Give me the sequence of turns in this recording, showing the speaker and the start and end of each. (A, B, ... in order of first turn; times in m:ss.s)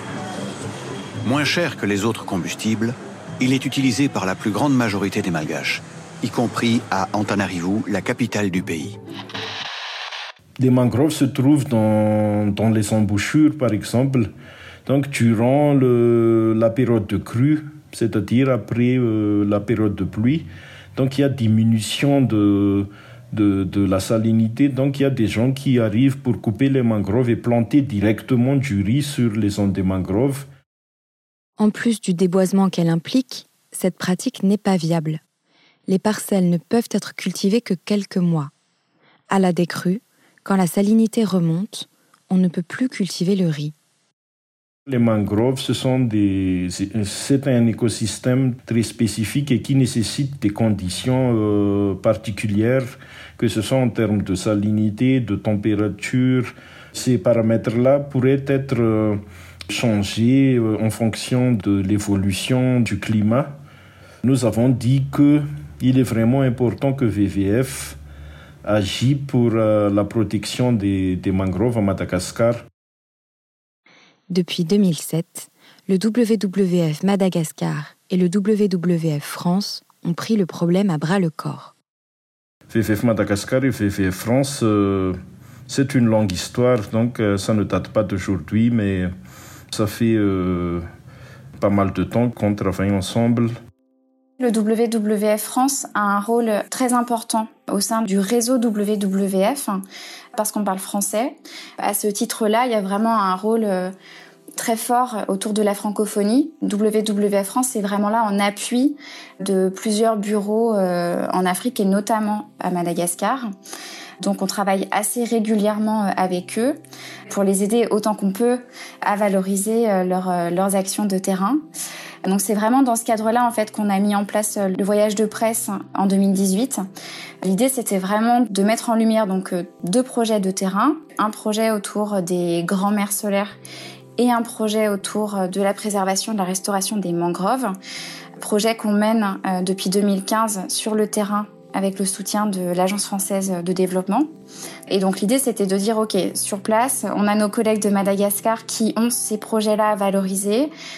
0:01.2-0:09.0 A
0:10.6-0:14.3 B
0:14.8-0:30.5 B
0:31.6-0:35.2 C
0:35.9-0:38.5 C
0:39.3-0:43.7 C
0:44.9-1:03.5 B
1:04.2-1:08.0 B
1:08.6-1:12.6 B
1:14.3-1:21.7 C
1:22.7-1:25.2 B
1:25.7-1:29.1 B
1:29.7-1:30.8 B
1:31.6-1:33.5 B
1:34.4-1:39.8 D
1:40.3-1:43.9 D
1:44.6-1:53.5 D
1:54.2-1:56.8 D
1:57.3-2:01.6 D
2:02.2-2:06.8 D
2:07.4-2:13.6 D
2:14.2-2:17.7 D
2:18.4-2:24.3 D
2:24.9-2:30.7 D